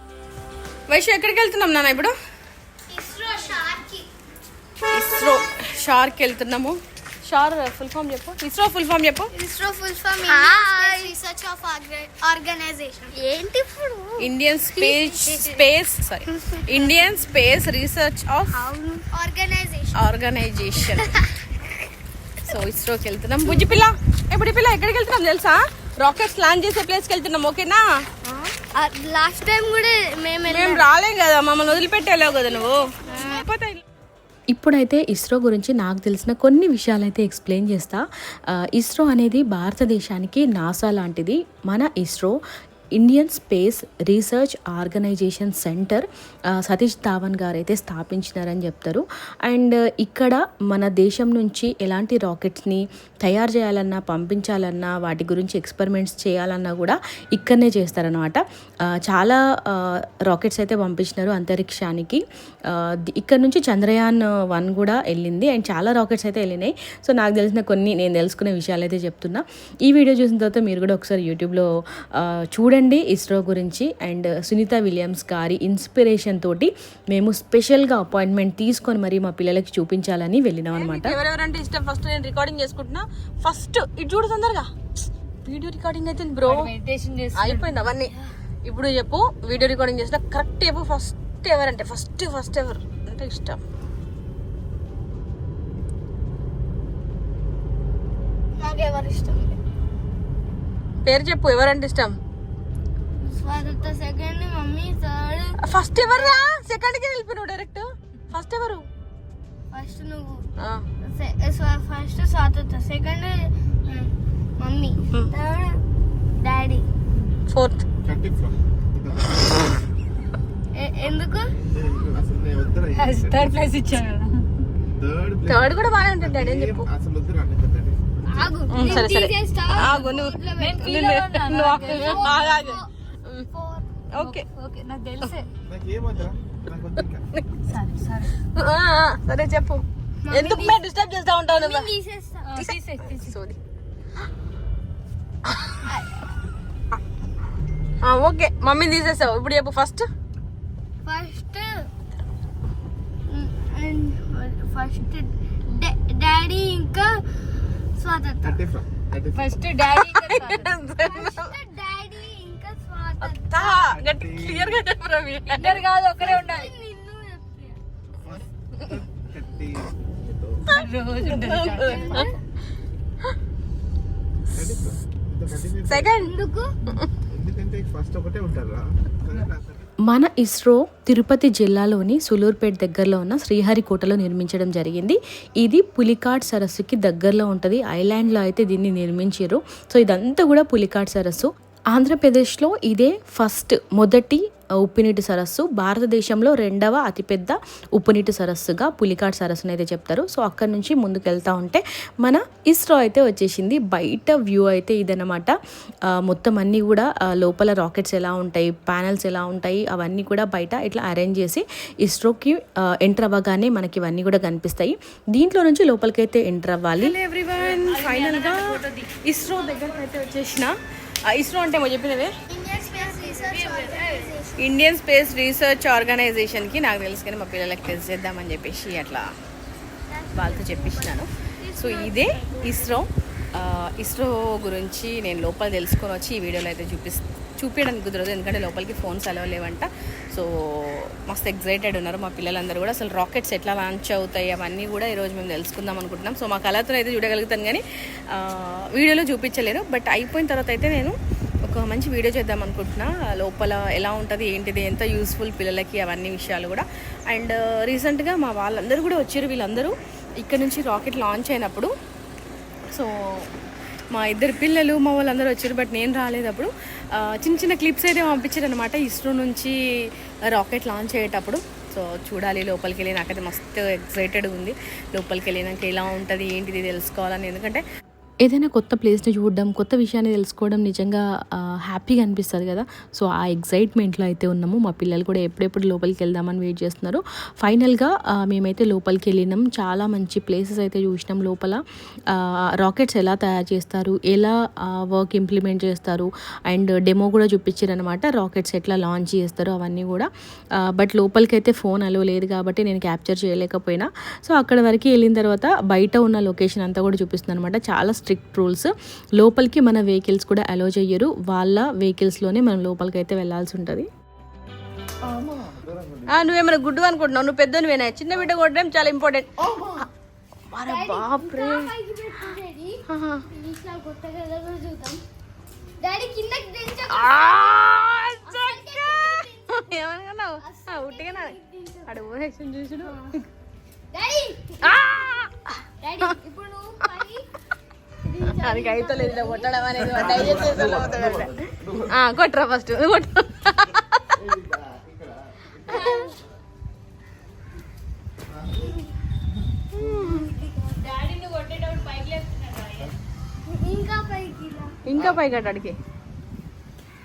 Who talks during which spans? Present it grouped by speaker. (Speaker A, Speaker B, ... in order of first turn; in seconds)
Speaker A: 0.9-2.1, 4.9-9.3, 14.2-18.7, 19.9-21.2, 22.4-27.9, 30.5-33.8, 80.7-84.7, 85.5-86.7, 87.3-88.1, 88.7-93.6, 101.0-102.2, 105.6-108.9, 110.6-110.9, 117.5-117.8, 125.5-126.9, 128.7-133.5, 134.1-134.5, 138.5-141.9, 142.6-143.6, 145.5-145.8, 148.0-150.1, 160.1-161.5, 163.2-165.8, 170.7-172.3, 175.9-176.3, 217.0-220.8, 221.3-222.3, 224.6-229.3, 230.3-261.9, 262.9-263.5, 264.1-269.8, 270.5-277.8, 316.3-320.0, 320.7-321.9, 323.1-323.4, 327.1-333.4, 334.8-336.3, 338.4-344.4, 349.9-350.5, 355.1-356.0
Speaker B: 2.9-4.1, 9.3-15.7, 16.3-16.9, 18.5-20.1, 21.0-21.3, 23.5-23.8, 28.2-30.9, 32.9-33.5, 98.6-99.6, 103.2-106.4, 109.7-110.5, 111.0-115.8, 116.4-116.9, 120.8-121.5, 128.3-132.9, 133.5-133.9, 140.2-140.8, 141.5-142.5, 145.8-146.2, 151.0-151.9, 153.3-157.2, 157.9-158.6, 160.9-163.8, 165.5-167.8, 171.6-172.4, 176.2-176.7, 222.5-224.7, 230.1-232.8, 320.8-325.2, 326.0-327.9, 328.4-330.0, 330.6-332.2, 333.0-333.4, 334.1-335.0, 336.0-337.5, 338.2-340.9, 345.9-346.4, 350.3-351.0, 353.6-355.0
Speaker C: 34.5-38.0, 38.6-42.4, 43.0-58.4, 59.0-81.2, 180.0-205.6, 206.1-217.2, 278.4-291.8, 292.3-300.3, 300.8-314.1
Speaker D: 86.4-88.1, 122.9-124.4, 130.6-132.7, 134.2-135.5, 137.6-138.4, 142.4-143.4, 159.3-160.8, 165.5-166.7, 170.7-172.3, 217.5-220.1, 223.5-224.2, 350.9-353.1
Speaker E: 118.0-119.9, 121.6-123.5, 125.0-128.8, 135.7-137.3, 158.4-159.8, 163.7-164.9, 168.2-170.7, 174.5-176.3, 177.3-179.9, 315.3-316.6, 319.6-320.0, 340.1-342.4, 344.3-346.4, 348.5-349.0, 355.1-355.4